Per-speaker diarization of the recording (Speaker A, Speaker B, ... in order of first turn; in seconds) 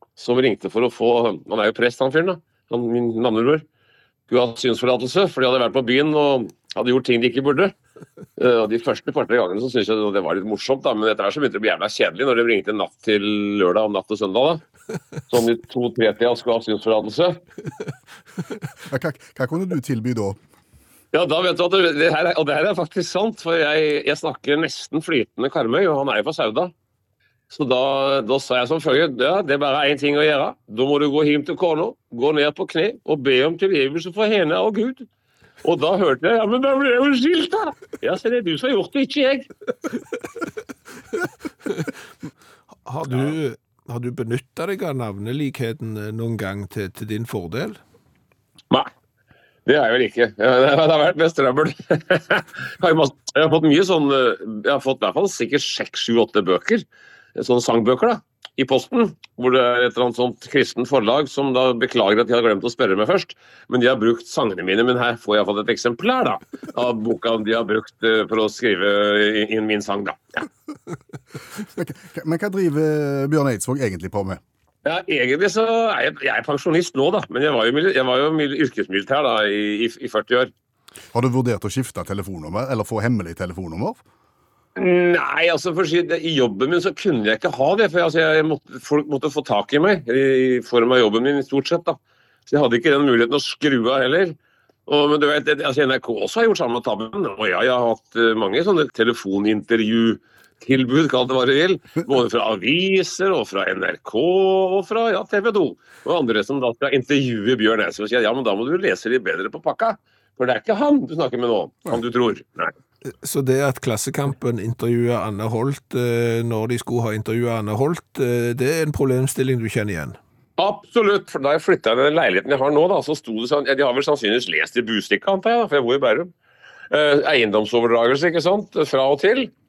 Speaker A: 0.2-3.6, 4.3-7.7, 8.4-14.6, 15.3-17.4, 21.1-26.7, 27.5-35.1, 35.6-39.5, 49.6-70.5, 74.8-80.5, 84.8-94.3, 94.9-112.7, 120.6-126.3, 126.9-129.5
Speaker B: 18.9-20.4, 71.6-74.4, 81.1-84.0
Speaker C: 42.8-47.8, 113.0-120.2